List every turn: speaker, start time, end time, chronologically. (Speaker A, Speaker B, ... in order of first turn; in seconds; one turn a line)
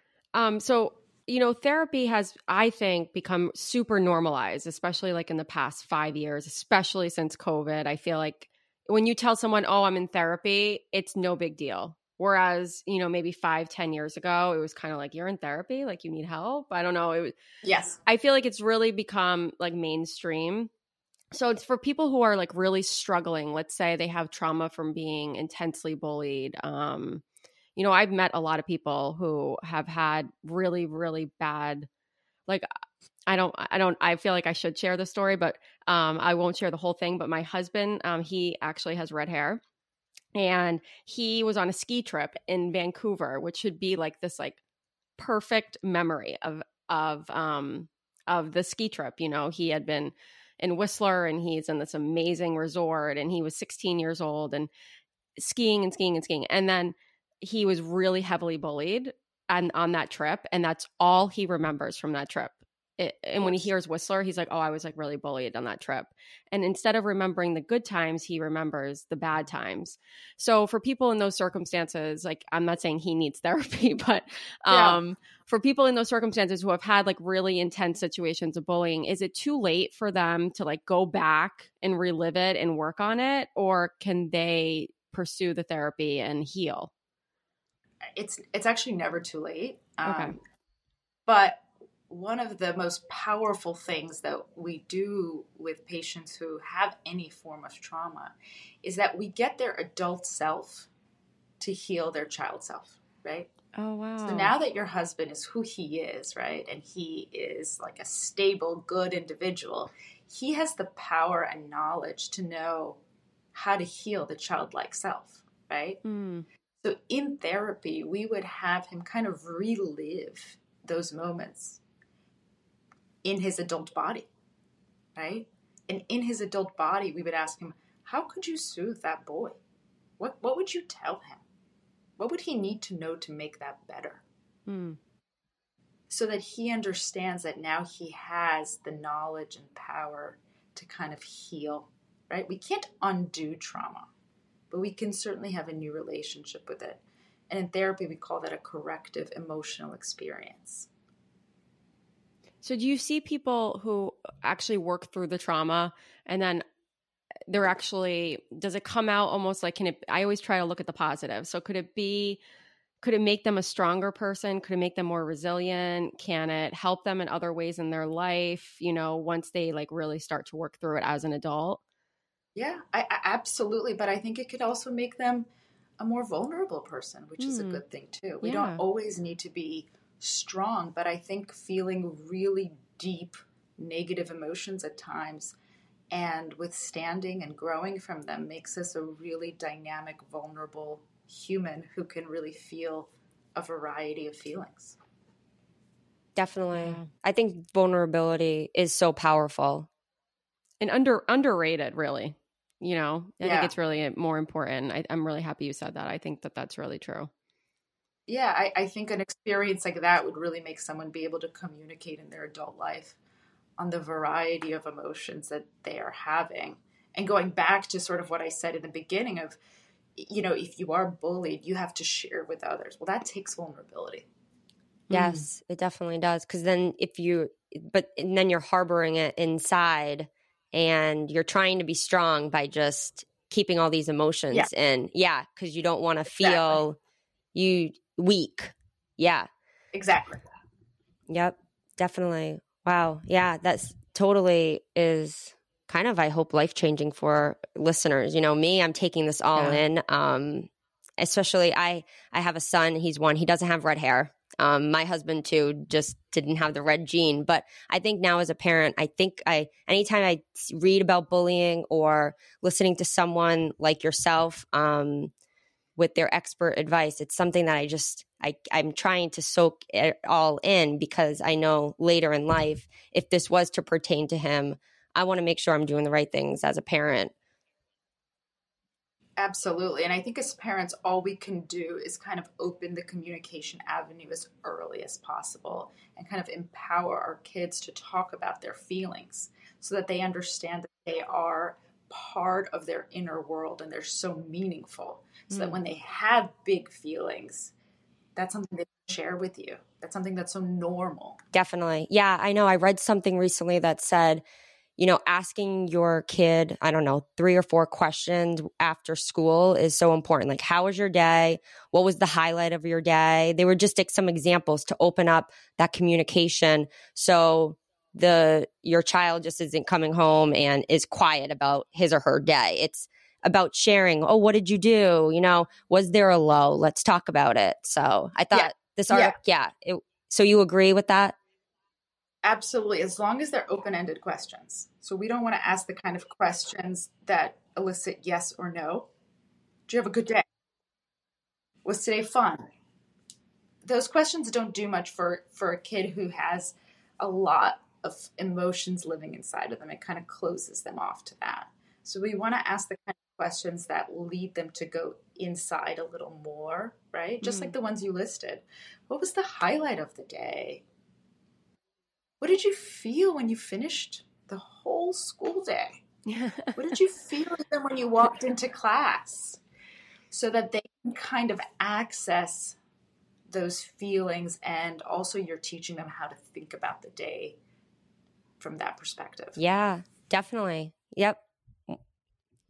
Speaker A: 0.3-17.3
Speaker B: 17.6-17.9
Speaker A: 18.1-20.7
Speaker A: 21.3-27.2
Speaker A: 27.8-31.9
Speaker A: 33.3-39.6
Speaker A: 40.3-44.6
Speaker A: 45.2-54.7
Speaker A: 55.4-86.9
Speaker B: 74.7-75.0
Speaker B: 88.2-90.4
Speaker A: 90.0-90.4
Speaker B: 91.3-100.9
Speaker B: 101.6-103.5
Speaker A: 103.7-104.5
Speaker B: 104.2-113.0
Speaker B: 113.5-116.0
Speaker A: 116.0-116.5
Speaker B: 116.8-121.8
Speaker B: 123.2-124.3
Speaker B: 125.2-129.6
Speaker B: 130.2-131.4
Speaker B: 132.2-134.2
Speaker A: 134.7-135.0
Speaker B: 136.1-144.1
Speaker B: 144.7-150.9
Speaker A: 152.6-156.6
Speaker A: 157.5-162.4
Speaker A: 163.0-171.8
Speaker B: 172.6-175.5
Speaker B: 176.0-185.5
Speaker A: 177.4-177.8
Speaker A: 178.4-178.8
Speaker B: 186.1-194.9
Speaker C: 196.4-199.9
Speaker A: 196.7-197.1
Speaker A: 200.8-207.3
Speaker B: 203.4-203.7
Speaker B: 208.3-213.2
Speaker B: 213.8-219.6
Speaker B: 220.2-224.2
Speaker A: 225.1-225.4
Speaker C: 225.1-237.0
Speaker B: 236.3-236.8
Speaker C: 237.5-239.5
Speaker B: 239.9-240.4
Speaker C: 241.3-265.3
Speaker A: 249.5-249.8
Speaker C: 265.9-277.3
Speaker B: 279.4-297.7
Speaker B: 298.4-301.4
Speaker C: 301.5-304.4
Speaker C: 305.0-331.4
Speaker B: 328.5-329.4
Speaker B: 332.4-339.1
Speaker B: 339.9-340.4
Speaker B: 341.9-342.6
Speaker B: 343.8-360.8
Speaker A: 357.4-357.7
Speaker B: 362.4-366.0
Speaker A: 366.2-366.9
Speaker B: 366.8-369.6
Speaker B: 370.3-372.8
Speaker B: 373.5-377.6
Speaker B: 378.6-379.6
Speaker C: 379.6-382.0